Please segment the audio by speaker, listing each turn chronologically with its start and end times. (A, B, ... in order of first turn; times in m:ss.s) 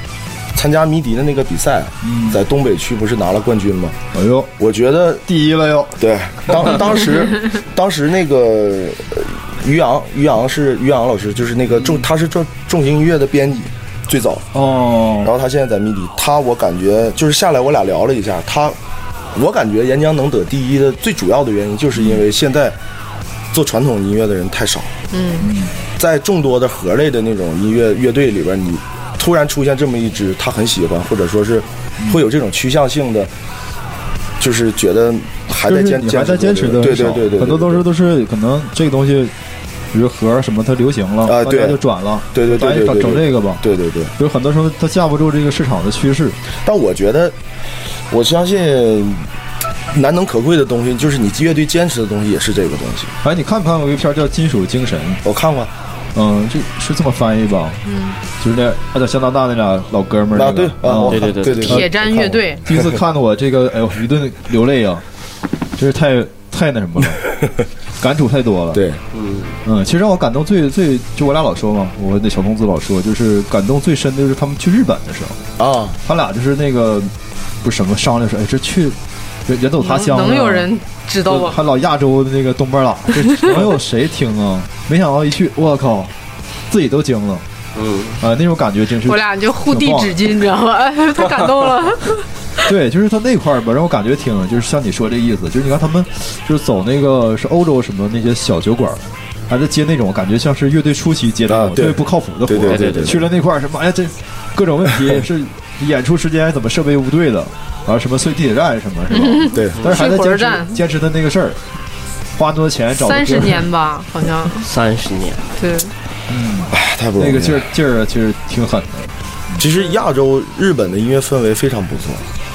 0:00.5-0:04.0 A
0:02.0-0:02.4 B
0:04.1-0:04.5 B
0:04.6-0:05.2 A
0:05.2-0:06.0 B
0:06.0-0:14.5 A
0:14.5-0:15.3 B
0:15.2-0:18.8 A
0:19.3-0:22.8 A
0:21.9-0:22.2 B
0:23.5-0:24.9 A
0:25.1-0:25.5 C
0:25.4-0:25.7 B
0:26.0-0:33.3 A
0:34.4-0:37.8 A
0:35.6-0:39.3 B
0:39.9-0:43.6 B
0:41.2-0:41.8 A
0:42.3-0:44.1 A
0:44.2-0:46.4 B
0:46.6-0:47.4 A
0:48.1-0:49.2 A
0:49.9-0:53.1 A
0:53.2-0:55.2 B
0:55.2-0:55.7 A
0:56.1-0:57.8 B
0:57.8-0:58.2 C
0:58.4-1:05.0 B
1:00.3-1:02.9 A
1:01.0-1:01.8 D
1:01.6-1:02.6 C
1:05.8-1:07.3 B
1:08.0-1:08.8 B
1:08.7-1:09.0 A
1:09.1-1:09.6 D
1:09.6-1:15.4 B
1:15.6-1:16.0 A
1:16.0-1:20.7 B
1:19.8-1:21.6 C
1:21.2-1:26.1 B
1:26.7-1:27.4 B
1:27.7-1:28.2 D
1:28.2-1:30.2 B
1:29.0-1:32.2 C
1:32.6-1:51.6 B
1:41.5-1:43.2 A
1:42.6-1:43.2 D
1:49.1-1:50.8 C
1:49.5-1:49.8 A
1:52.4-1:53.6 B
1:53.0-1:54.7 C
1:54.6-1:55.4 D
1:55.6-1:55.9 C
1:56.3-1:59.6 B
1:56.7-1:57.6 A
1:59.6-2:02.2 A